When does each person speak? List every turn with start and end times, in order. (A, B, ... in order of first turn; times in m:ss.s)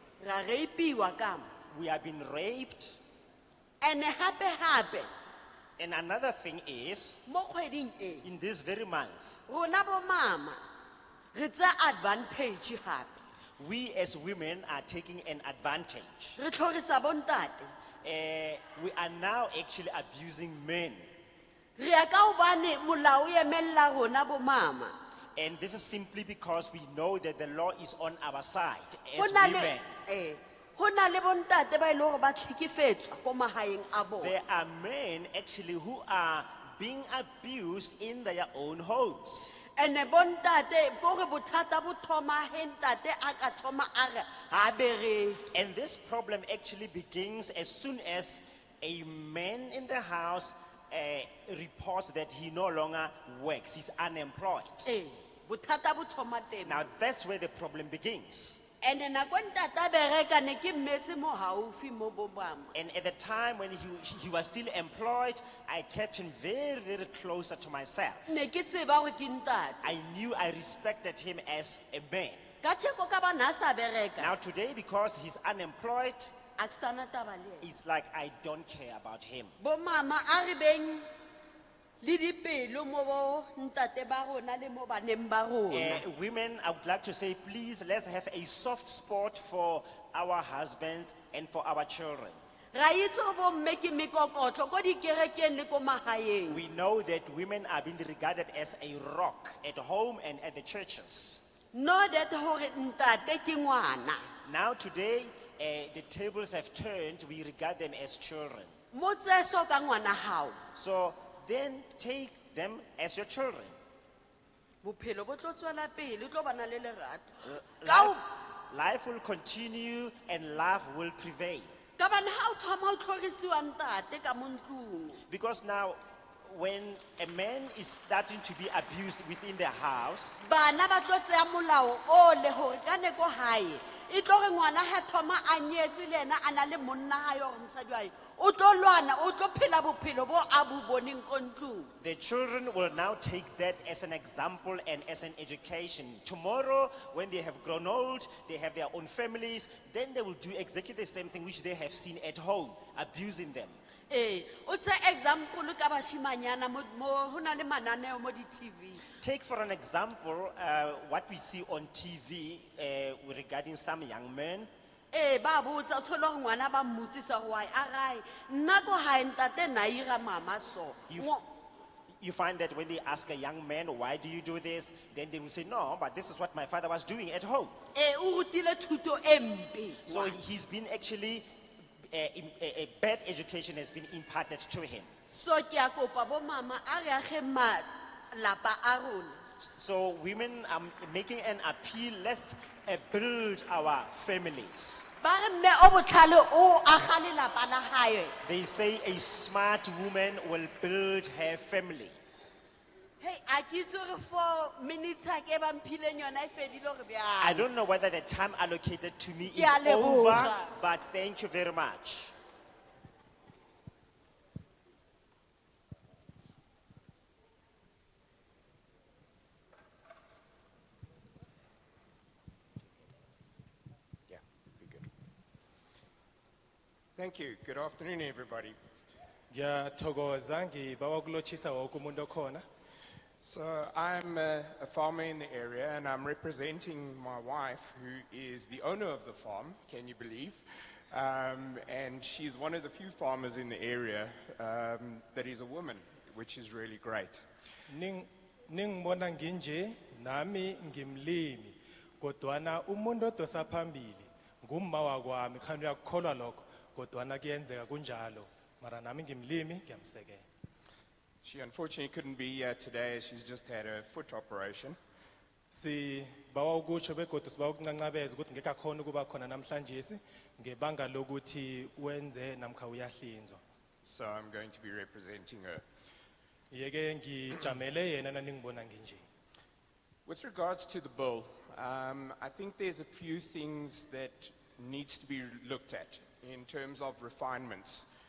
0:00.2-0:01.5 A
0:01.7-0:03.0 B
0:03.8-0:05.1 A
0:05.8-0:07.2 B
0:07.3-0:08.2 A
0:08.2-0:09.4 B
0:09.5-0:10.6 A
0:11.3-0:13.2 A
0:13.6-0:16.4 B
0:16.4-0:17.7 A
0:18.0-0:21.1 B
0:21.8-0:24.9 A
0:25.4-0:30.0 B
0:29.2-0:34.3 A
0:34.2-0:39.5 B
0:39.7-0:45.5 A
0:45.5-0:54.9 B
0:54.8-0:56.8 A
0:56.6-0:58.6 B
0:58.8-1:02.7 A
1:02.7-1:08.4 B
1:08.3-1:09.9 A
1:09.8-1:12.4 B
1:12.6-1:14.3 A
1:14.2-1:16.4 B
1:16.6-1:17.7 A
1:17.6-1:19.5 B
1:19.6-1:21.1 A
1:22.0-1:26.0 A
1:25.7-1:32.4 B
1:32.7-1:36.6 A
1:36.5-1:41.4 B
1:41.7-1:44.2 A
1:44.4-1:48.7 B
1:48.9-1:50.6 A
1:50.7-1:53.8 B
1:54.8-1:58.2 A
1:57.4-2:01.7 B
2:02.0-2:05.2 A
2:05.3-2:10.4 B
2:10.4-2:21.9 A
2:22.0-2:33.8 B
2:34.1-2:39.0 A
2:39.2-2:44.7 B
2:45.1-2:51.4 A
2:51.1-2:51.4 B
2:52.2-2:57.8 B
2:57.9-3:00.4 A
3:00.0-3:01.5 B
3:02.1-3:05.1 B
3:05.3-3:09.4 A
3:09.6-3:15.2 B
3:15.2-3:18.3 A
3:18.4-3:22.2 B
3:23.2-3:27.6 A
3:27.4-3:32.3 B
3:29.5-3:30.6 A
3:44.3-3:45.1 C
3:47.2-3:48.7 C
3:49.5-3:52.6 D
3:53.4-4:07.4 C
4:07.9-4:20.4 D
4:21.4-4:25.0 C
4:25.7-4:33.6 D
4:34.0-4:35.8 C
4:36.7-4:39.2 D
4:40.2-4:48.1 C